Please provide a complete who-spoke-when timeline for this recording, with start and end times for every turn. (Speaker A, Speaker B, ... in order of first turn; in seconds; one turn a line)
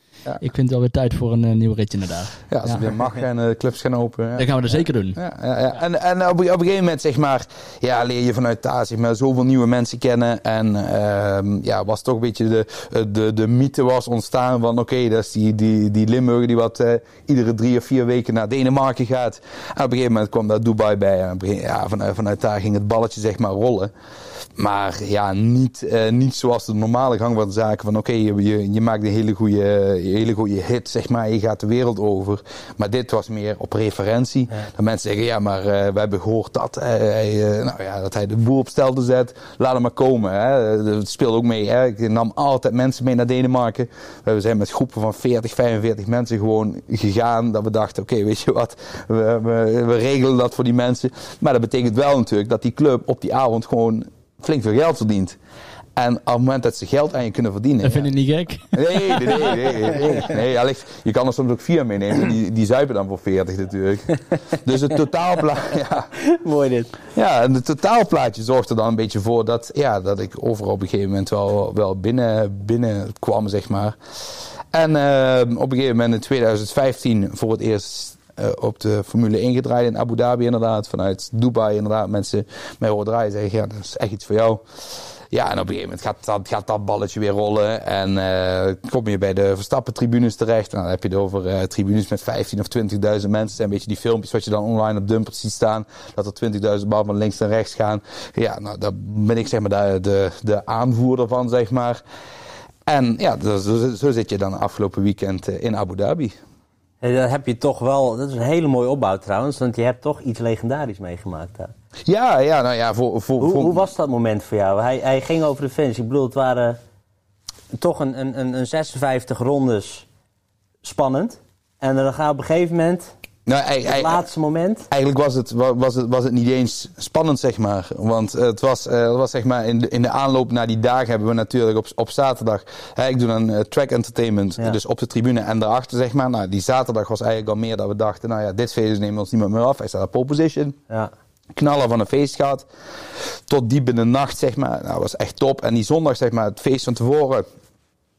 Speaker A: 0.4-2.9
Speaker B: 2.5-23.9
Speaker A: 4.4-5.2
Speaker B: 24.6-55.4
Speaker B: 56.0-58.1
Speaker A: 57.8-59.6
Speaker B: 58.7-66.1
Speaker C: 66.2-66.9
Speaker B: 67.2-84.6
Speaker B: 85.3-102.0
Speaker B: 102.9-106.4
Speaker C: 107.0-111.7
Speaker B: 112.1-113.9
Speaker C: 113.4-116.8
Speaker C: 117.7-120.1
Speaker C: 120.8-123.1
Speaker B: 123.5-124.2
Speaker C: 123.9-124.9
Speaker B: 124.9-140.8
Speaker B: 141.6-142.7
Speaker B: 143.2-147.5